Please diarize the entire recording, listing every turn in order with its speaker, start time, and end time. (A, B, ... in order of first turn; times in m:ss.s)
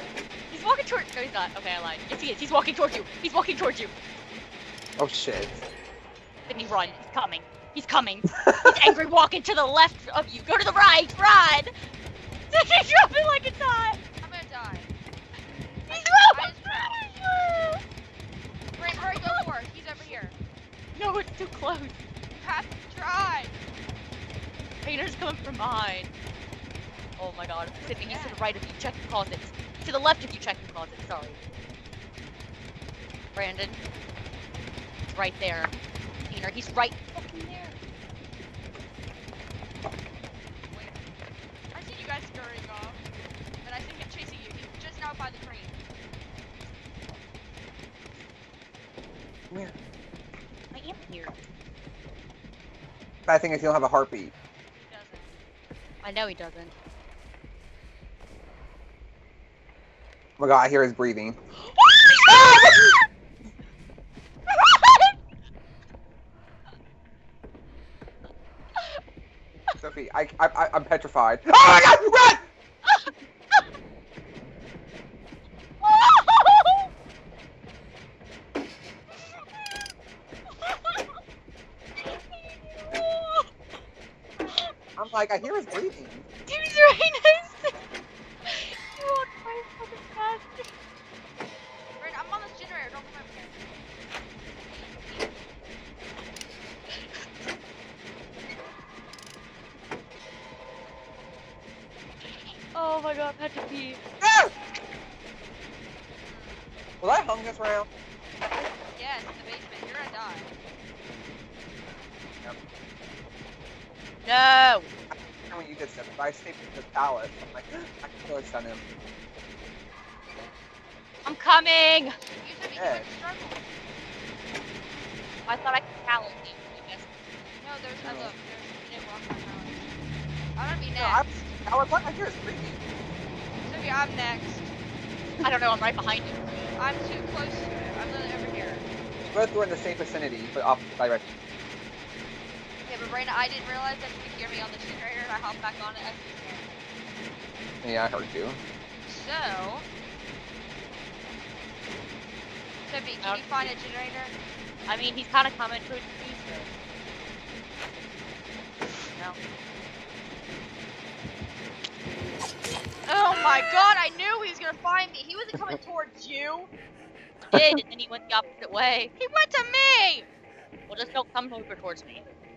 0:00.5-0:03.9 A
0:05.0-0:05.6 B
0:06.5-0:11.7 A
0:06.5-0:07.1 C
0:08.4-0:08.9 B
0:12.5-0:14.0 A
0:14.2-0:14.9 C
0:15.9-0:17.1 A
0:15.9-0:17.2 C
0:18.8-0:20.4 C
0:18.9-0:19.4 A
0:21.0-0:22.0 A
0:22.4-0:23.6 C
0:24.8-0:26.1 A
0:27.2-0:31.4 A
0:27.8-0:28.6 C
0:33.4-0:33.8 A
0:35.1-0:35.7 A
0:36.3-0:37.8 A
0:40.7-0:41.1 C
0:41.7-0:43.0 C
0:43.6-0:45.8 C
0:50.7-0:51.3 A
0:53.3-0:54.3 B
0:54.7-0:55.4 C
0:56.0-0:56.7 A
1:00.4-1:01.4 B
1:01.7-1:02.9 A
1:02.3-1:02.9 B
1:04.5-1:05.1 A
1:09.8-1:12.4 B
1:12.8-1:13.1 A
1:15.8-1:16.9 A
1:20.6-1:21.1 A
1:22.2-1:23.5 A
1:25.0-1:26.3 B
1:26.5-1:27.8 A
1:28.5-1:30.7 A
1:32.0-1:35.3 C
1:42.7-1:44.0 A
1:44.2-1:44.5 B
1:46.2-1:46.8 C
1:47.0-1:47.9 B
1:49.0-1:50.5 C
1:54.2-1:54.9 A
1:55.5-1:58.8 B
2:01.2-2:02.2 A
2:02.1-2:03.6 C
2:02.8-2:03.1 B
2:05.5-2:07.2 A
2:07.6-2:09.9 C
2:08.0-2:08.3 B
2:10.6-2:11.6 C
2:11.0-2:12.8 B
2:13.6-2:14.7 C
2:15.4-2:16.7 A
2:16.8-2:18.9 C
2:19.2-2:21.3 B
2:22.9-2:26.9 C
2:27.8-2:28.6 B
2:29.0-2:29.9 C
2:32.8-2:34.3 C
2:33.2-2:33.7 A
2:34.9-2:36.7 A
2:43.1-2:46.7 C
2:47.5-2:49.1 A
2:49.2-2:50.3 C
2:50.9-2:52.2 A